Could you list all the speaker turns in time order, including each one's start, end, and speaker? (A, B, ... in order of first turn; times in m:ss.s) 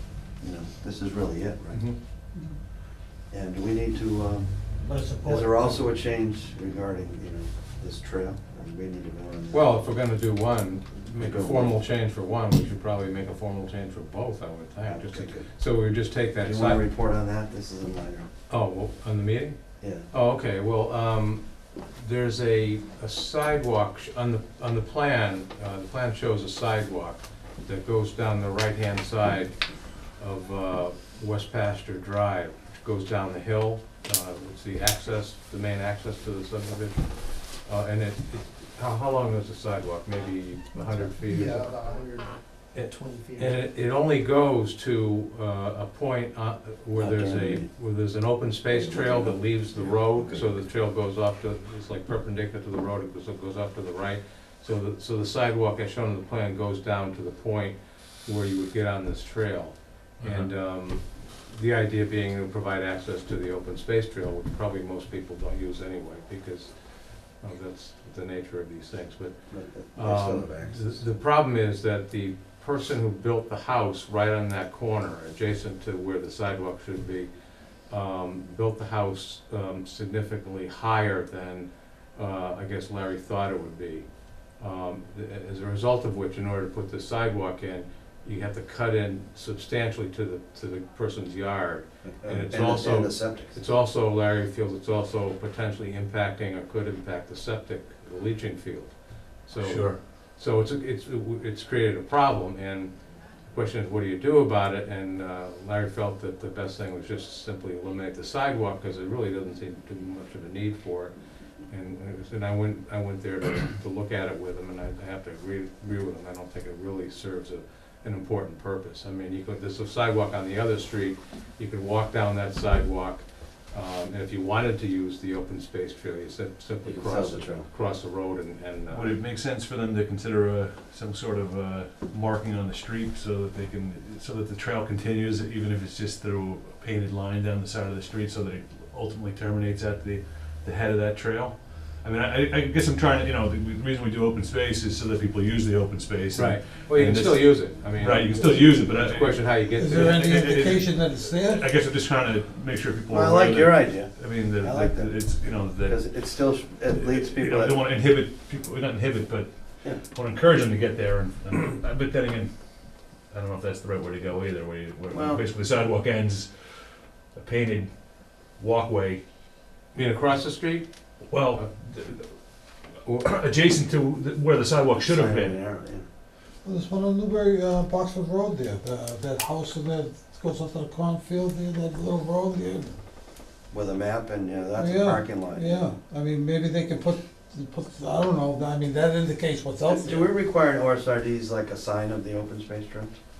0:00.2-0:01.8 A
0:03.3-0:09.6 A
0:04.8-0:05.8 B
0:09.5-0:16.8 C
0:11.2-0:11.8 A
0:14.8-0:15.5 A
0:16.4-0:18.3 A
0:18.5-0:19.6 C
0:19.8-0:20.1 A
0:20.1-0:41.8 C
0:40.8-0:43.6 D
0:42.7-1:42.9 C
0:47.0-0:47.7 A
0:48.7-0:50.5 A
1:00.2-1:00.5 E
1:09.5-1:11.0 A
1:32.0-1:33.6 A
1:39.6-1:40.0 E
1:43.4-1:51.1 C
1:51.7-2:09.2 C
2:06.8-2:07.7 A
2:08.9-2:42.5 E
2:26.3-2:30.6 C
2:29.8-2:31.7 B
2:33.1-2:37.8 A
2:43.2-2:49.2 E
2:45.1-2:45.4 A
2:49.9-2:50.9 C
2:51.3-2:55.6 E
2:55.0-2:56.0 A
2:56.6-3:03.0 B
3:03.7-3:05.8 A
3:04.8-3:10.3 B
3:09.8-3:13.2 A